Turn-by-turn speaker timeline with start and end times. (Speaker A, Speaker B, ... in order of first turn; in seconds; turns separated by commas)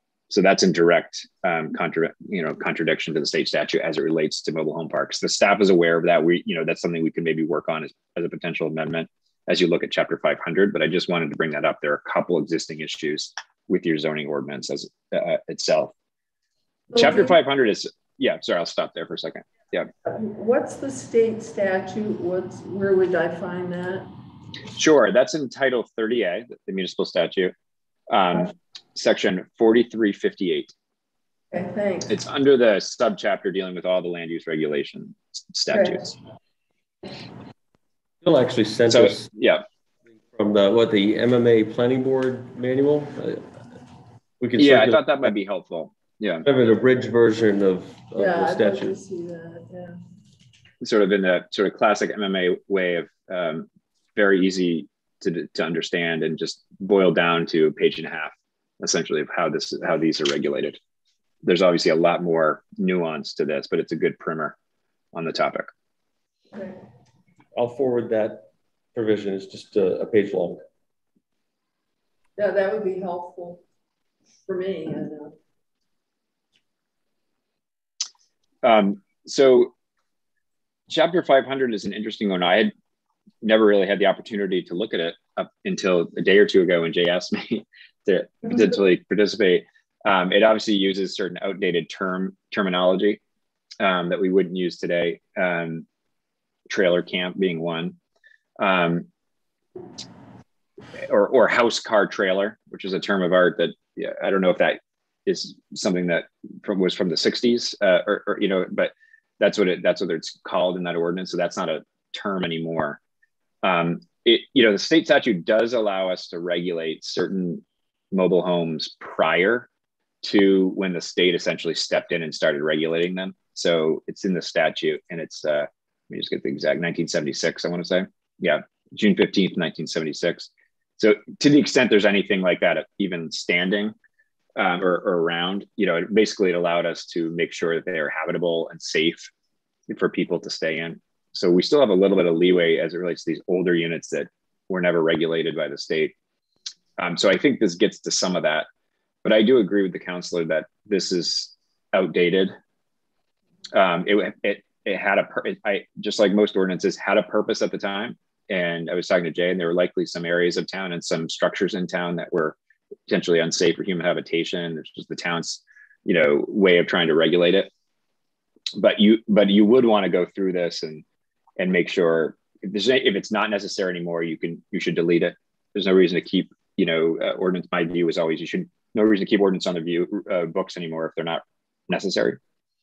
Speaker A: 0.3-15.9, Speaker A: 16.9-19.9, Speaker B: 16.9-17.3, Speaker B: 20.0-24.1, Speaker A: 24.8-27.5, Speaker A: 28.1-30.7, Speaker B: 31.5-32.1, Speaker A: 32.1-36.2, Speaker B: 35.7-36.0, Speaker C: 38.2-39.3, Speaker A: 38.9-39.6, Speaker C: 40.2-43.5, Speaker C: 44.4-45.3, Speaker A: 44.6-46.5, Speaker C: 46.4-48.9, Speaker B: 48.2-50.0, Speaker A: 50.8-60.8, Speaker A: 61.4-64.5, Speaker A: 65.1-65.7, Speaker B: 66.5-66.8, Speaker C: 67.5-70.6, Speaker B: 72.4-73.6, Speaker B: 74.5-75.3, Speaker A: 78.6-79.7, Speaker A: 80.9-82.7, Speaker A: 83.4-93.2, Speaker A: 93.8-95.8, Speaker A: 96.7-98.0, Speaker A: 98.6-99.1, Speaker A: 101.1-113.0, Speaker A: 113.6-119.7, Speaker A: 120.2-133.9, Speaker A: 134.6-139.3, Speaker A: 139.9-146.1, Speaker A: 147.0-148.7, Speaker A: 149.2-152.5, Speaker A: 153.7-162.6, Speaker A: 163.1-167.7, Speaker A: 168.8-171.0, Speaker A: 171.6-182.4